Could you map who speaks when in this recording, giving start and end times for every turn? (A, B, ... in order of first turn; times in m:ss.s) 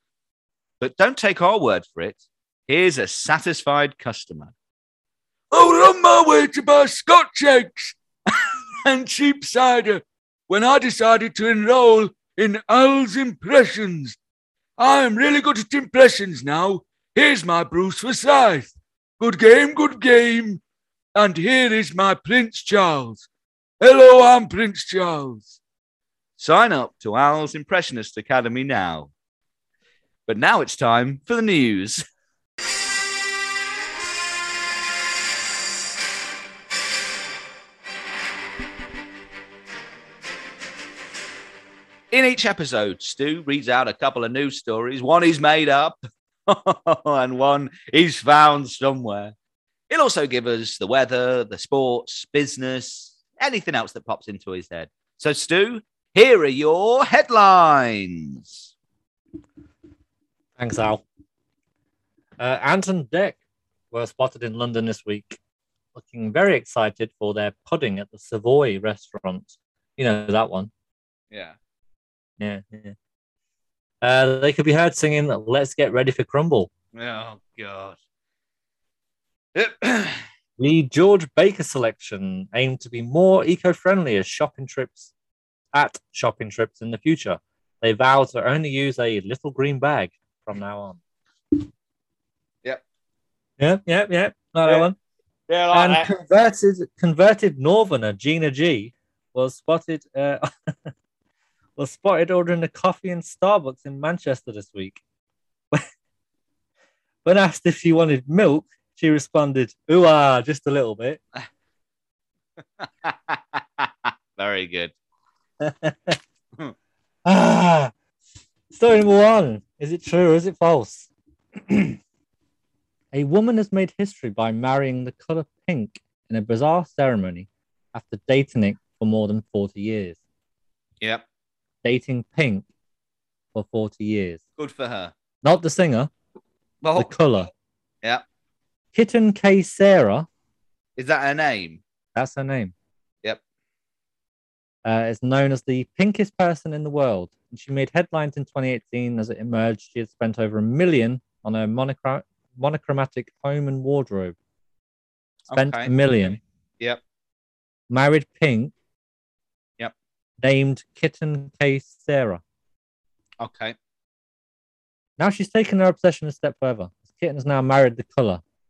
0:00.8-0:04.5 A
0:05.5-0:14.2 B
0:14.8-0:20.6 B
0:21.2-0:23.3 B
0:23.8-0:25.6 B
0:26.4-0:29.1 A
0:30.3-0:32.0 A
0:42.1-0:49.3 A
0:49.9-0:58.7 A
1:00.6-1:01.0 C
1:02.4-1:03.4 C
1:03.9-1:05.4 C
1:06.0-1:10.7 C
1:11.3-1:11.6 A
1:12.4-1:13.0 C
1:14.0-1:16.7 C
1:16.9-1:18.0 A
1:19.6-1:20.2 A
1:20.6-1:25.1 C
1:25.7-1:31.0 C
1:33.6-1:35.0 C
1:34.6-1:34.9 A
1:35.5-1:36.1 A
1:35.7-1:40.5 C
1:41.8-1:45.0 C
1:47.2-1:51.2 C
1:52.8-1:54.9 A
1:55.6-1:56.2 C
1:57.3-1:57.9 C
1:58.7-2:01.1 C
2:03.1-2:10.2 C
2:11.8-2:12.7 C
2:13.5-2:14.4 C
2:14.6-2:15.1 A
2:15.4-2:16.1 C
2:16.8-2:17.1 A
2:17.0-2:17.5 C
2:18.9-2:20.3 C
2:21.0-2:21.8 A
2:22.2-2:22.7 C
2:24.8-2:34.4 C
2:35.5-2:35.9 A
2:35.5-2:36.4 C
2:37.9-2:38.7 C
2:40.4-2:42.4 C
2:43.4-2:43.8 A
2:45.2-2:48.4 C